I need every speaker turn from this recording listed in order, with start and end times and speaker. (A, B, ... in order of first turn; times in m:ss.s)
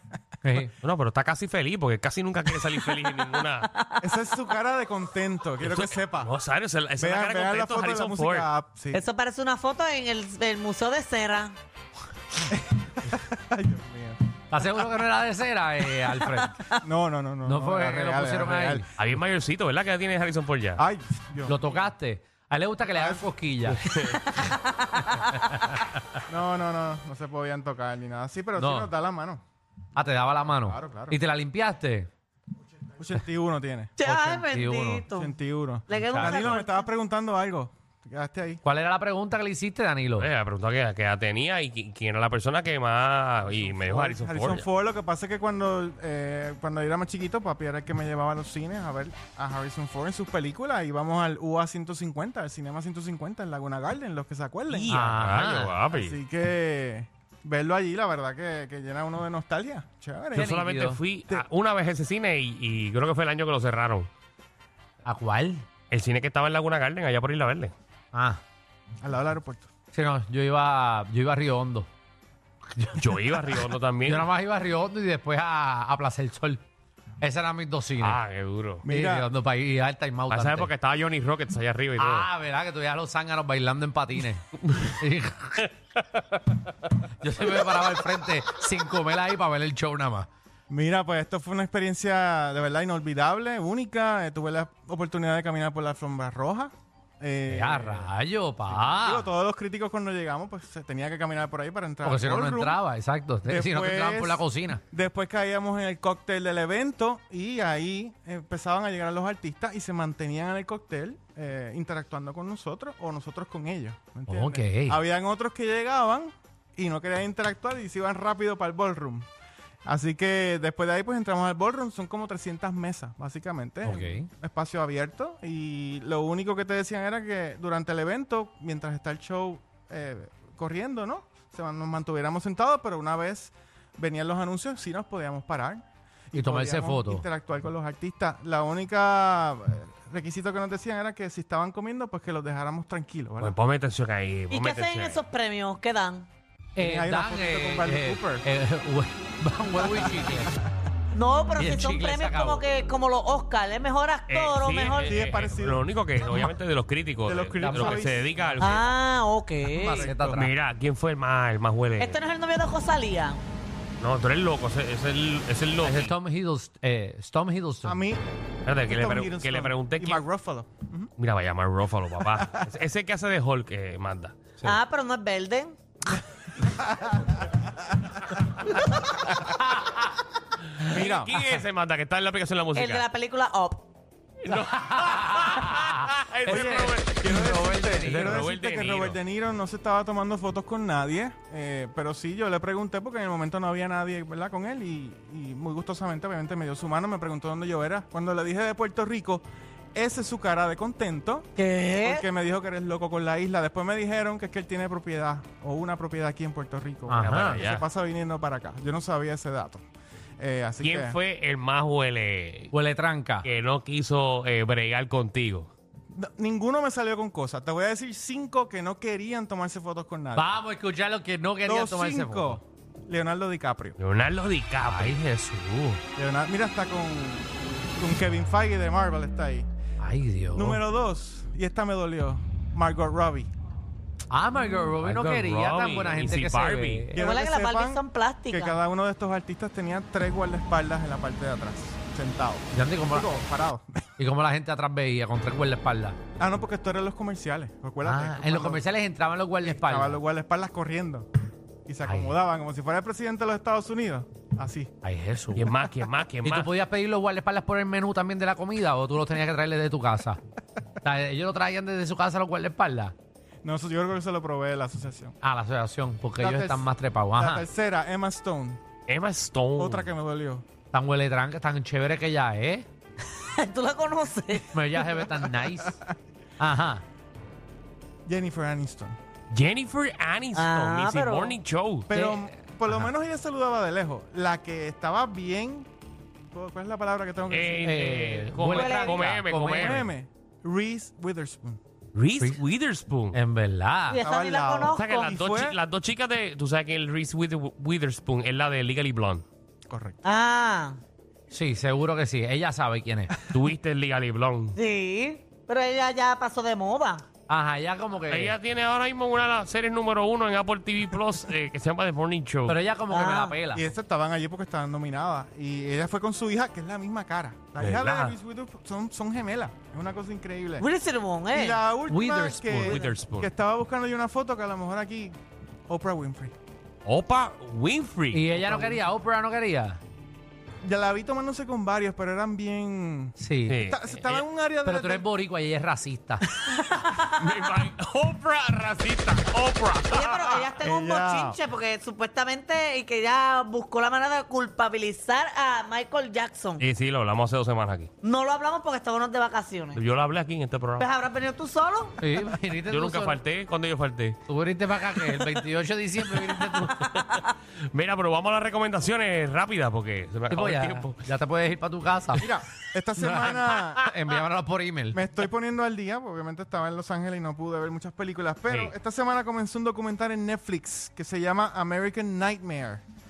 0:00.4-0:00.7 A
0:00.8-0:03.7 B
0:03.7-0:04.0 C
0:04.0-0:06.3 D
0:05.6-0:08.5 B
0:07.0-0:09.0 D
0:08.9-0:11.6 C
0:12.5-0:14.2 D
0:14.5-0:16.8 A
0:16.8-0:18.9 D
0:17.4-0:18.8 A
0:19.0-0:20.8 B
0:20.8-0:21.8 D
0:21.5-0:23.8 A
0:22.9-0:23.3 D
0:23.7-0:24.4 B
0:25.3-0:25.8 A
0:26.3-0:29.4 D
0:28.6-0:28.9 A
0:29.9-0:32.1 A
0:30.6-0:31.2 D
0:33.0-0:33.9 D
0:34.0-0:35.3 C
0:34.0-0:35.1 A
0:35.1-0:38.6 D
0:35.9-0:36.8 C
0:35.9-0:36.6 A
0:38.6-0:40.3 A
0:40.2-0:44.6 B
0:43.4-0:54.9 D
0:54.7-0:56.2 B
0:54.9-0:55.8 A
0:55.9-1:00.6 D
1:00.3-1:04.1 B
1:00.3-1:01.0 A
1:05.0-1:05.6 A
1:05.9-1:07.7 B
1:08.1-1:08.4 A
1:09.0-1:09.7 D
1:09.9-1:11.9 A
1:12.8-1:13.1 A
1:12.9-1:14.3 B
1:14.0-1:16.6 A
1:17.2-1:18.2 A
1:18.0-1:18.8 B
1:18.8-1:19.3 D
1:18.8-1:20.7 A
1:20.3-1:22.3 B
1:22.0-1:25.7 A
1:27.2-1:30.3 A
1:30.7-1:38.1 D
1:37.5-1:39.3 A
1:38.7-1:42.8 D
1:42.0-1:44.8 A
1:43.4-1:59.2 D
1:54.3-1:55.0 A
1:59.8-2:23.5 D
2:03.8-2:04.3 A
2:16.3-2:17.2 A
2:23.4-2:25.2 B
2:24.5-2:26.2 C
2:26.8-2:30.6 A
2:26.8-2:28.4 D
2:31.2-2:35.1 C
2:31.6-2:32.6 A
2:34.3-2:38.9 B
2:35.0-2:36.5 D
2:37.2-2:38.8 D
2:37.6-2:38.2 A
2:38.6-2:40.0 C
2:39.7-2:40.5 A
2:39.8-2:40.4 D
2:40.2-2:42.2 B
2:42.0-2:43.4 C
2:44.0-2:46.1 B
2:45.8-2:48.0 A
2:47.8-2:48.2 D
2:48.6-2:50.2 B
2:48.8-2:51.1 D
2:51.2-2:54.5 B
2:52.4-2:52.6 D
2:54.6-2:55.7 C
2:56.7-2:57.3 D
3:00.8-3:03.0 B
3:00.9-3:01.4 D
3:02.8-3:03.8 C
3:04.4-3:07.2 B
3:04.9-3:08.4 A
3:06.4-3:19.4 D
3:08.0-3:09.2 B
3:19.9-3:29.8 D
3:21.6-3:22.2 C
3:27.1-3:27.6 A
3:27.2-3:27.8 B
3:30.4-3:31.2 D
3:30.8-3:32.7 B
3:32.7-3:33.5 A
3:33.4-3:35.7 B
3:36.1-3:40.5 D
3:40.3-3:42.6 A
3:41.6-3:44.0 D
3:44.0-3:45.2 B
3:44.8-3:46.0 A
3:46.1-3:49.7 D
3:50.0-3:50.8 A
3:50.5-3:53.5 D
3:54.3-3:57.2 A
3:55.0-3:57.1 B
3:57.1-4:04.0 D
3:57.2-3:58.8 C
4:02.7-4:03.4 A
4:04.2-4:06.2 A
4:06.4-4:08.8 D
4:08.0-4:10.2 A
4:09.6-4:11.3 D
4:11.8-4:14.9 D
4:12.0-4:12.4 A
4:15.0-4:15.7 A
4:15.5-4:16.7 B
4:16.4-4:20.4 A
4:21.0-4:23.1 A
4:23.6-4:25.3 D
4:25.4-4:27.6 A
4:26.4-4:28.8 D
4:29.1-4:30.1 B
4:29.8-4:30.6 D
4:30.9-4:32.9 A
4:33.2-4:34.7 C
4:34.7-4:36.0 A
4:35.0-4:36.1 D
4:36.6-4:37.0 A
4:38.2-4:39.2 D
4:39.5-4:42.1 B
4:40.5-4:41.6 C
4:42.1-4:45.9 D
4:42.1-4:43.1 A
4:46.5-4:48.0 D
4:47.5-4:50.0 B
4:47.8-4:50.1 A
4:48.8-4:49.1 C
4:49.7-4:51.8 D
4:52.1-4:53.4 B
4:53.3-4:54.2 A
4:54.1-4:55.3 C
4:54.2-4:55.8 D
4:55.0-4:59.4 B
4:59.9-5:00.2 D
5:00.2-5:01.0 C
5:01.5-5:03.4 A
5:03.5-5:04.8 B
5:04.8-5:07.2 C
5:07.5-5:08.5 A
5:08.3-5:12.8 B
5:12.7-5:13.9 A
5:13.1-5:13.6 C
5:13.7-5:20.9 D
5:17.8-5:18.4 B
5:20.8-5:21.8 C
5:21.5-5:25.4 D
5:22.1-5:23.0 A
5:22.8-5:23.5 B
5:25.9-5:26.5 D
5:27.0-5:29.0 B
5:28.3-5:30.0 A
5:30.8-5:35.3 D
5:33.4-5:33.8 A
5:33.7-5:34.4 B
5:34.8-5:36.4 A
5:36.9-5:37.4 C
5:37.1-5:40.7 B
5:40.1-5:46.8 C
5:40.8-5:41.6 D
5:46.8-5:48.1 B
5:48.2-5:50.0 C
5:49.9-5:51.1 B
5:51.0-5:52.2 C
5:52.2-5:53.4 A
5:52.9-5:54.4 B
5:54.5-5:57.0 A
5:56.8-6:01.2 B
6:00.5-6:02.5 A
6:02.4-6:04.1 D
6:03.2-6:05.2 A
6:05.1-6:13.0 D
6:08.7-6:08.9 B